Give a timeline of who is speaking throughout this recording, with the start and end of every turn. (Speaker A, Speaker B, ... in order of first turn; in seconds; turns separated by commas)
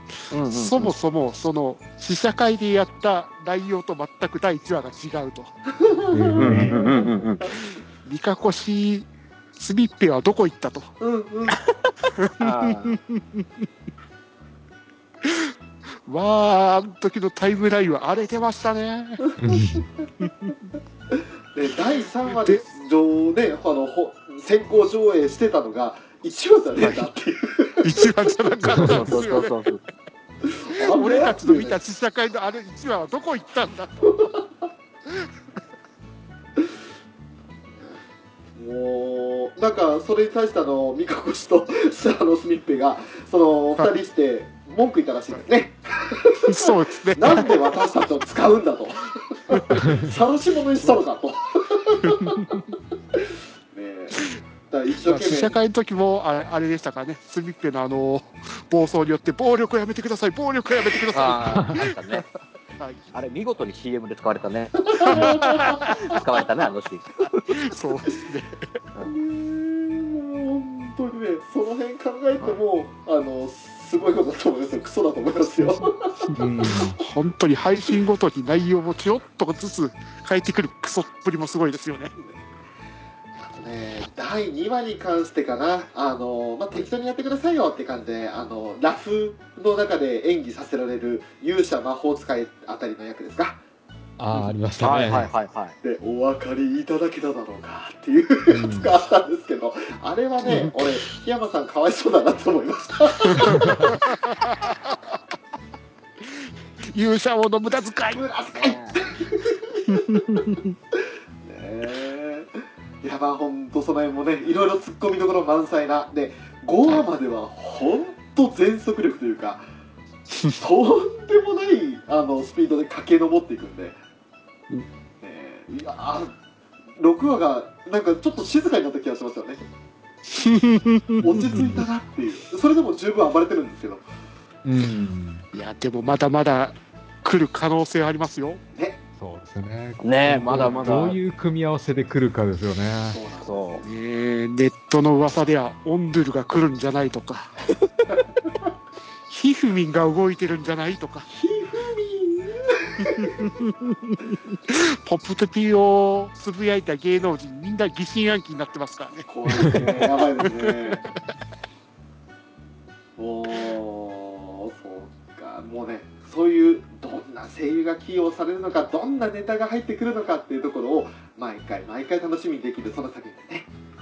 Speaker A: 0.3-0.9, Speaker B: 0.5-5.5, Speaker C: 5.8-7.6, Speaker D: 6.1-6.8, Speaker A: 6.3-7.4, Speaker B: 7.9-10.9, Speaker C: 11.0-11.6, Speaker B: 12.2-13.6, Speaker A: 12.4-13.0, Speaker B: 15.2-15.5, Speaker B: 16.0-19.2, Speaker C: 19.2-20.3, Speaker D: 19.4-19.9, Speaker C: 21.1-27.9, Speaker B: 22.2-22.6, Speaker B: 26.8-27.1, Speaker B: 27.8-29.6, Speaker D: 28.6-28.9, Speaker A: 28.7-29.8, Speaker C: 30.4-31.8, Speaker B: 30.8-34.1, Speaker C: 34.1-34.4, Speaker C: 38.5-52.6, Speaker B: 46.5-47.6, Speaker B: 49.5-50.0, Speaker D: 49.8-50.1, Speaker B: 52.0-52.6, Speaker C: 53.1-55.6, Speaker B: 55.0-61.9, Speaker A: 61.1-62.3, Speaker D: 61.5-61.8, Speaker B: 62.8-63.0, Speaker A: 63.1-65.4, Speaker C: 64.8-66.3, Speaker B: 65.0-65.9, Speaker A: 66.0-67.1, Speaker B: 67.5-68.7, Speaker C: 69.0-76.3, Speaker B: 75.6-82.1, Speaker D: 76.3-77.0, Speaker C: 83.4-93.6, Speaker D: 94.2-95.3, Speaker A: 94.4-95.7, Speaker C: 95.8-103.5, Speaker D: 98.5-98.9, Speaker B: 103.2-105.0, Speaker D: 103.4-103.9, Speaker B: 106.2-108.2, Speaker C: 108.1-110.0, Speaker A: 108.5-109.0, Speaker B: 109.9-110.7, Speaker C: 111.4-119.7, Speaker C: 120.5-124.0, Speaker C: 125.2-126.3, Speaker C: 127.0-129.6, Speaker B: 130.4-131.8, Speaker C: 131.2-134.0, Speaker D: 131.2-131.8, Speaker D: 134.6-135.4, Speaker B: 135.5-138.6, Speaker C: 138.7-139.0, Speaker D: 139.2-143.2, Speaker A: 140.0-141.2, Speaker B: 140.5-141.1, Speaker C: 143.1-143.9, Speaker A: 143.4-143.8, Speaker B: 143.8-147.5, Speaker B: 149.3-151.3, Speaker C: 151.3-153.5, Speaker B: 153.0-160.0, Speaker C: 159.3-161.1, Speaker B: 160.6-161.1, Speaker C: 163.2-173.7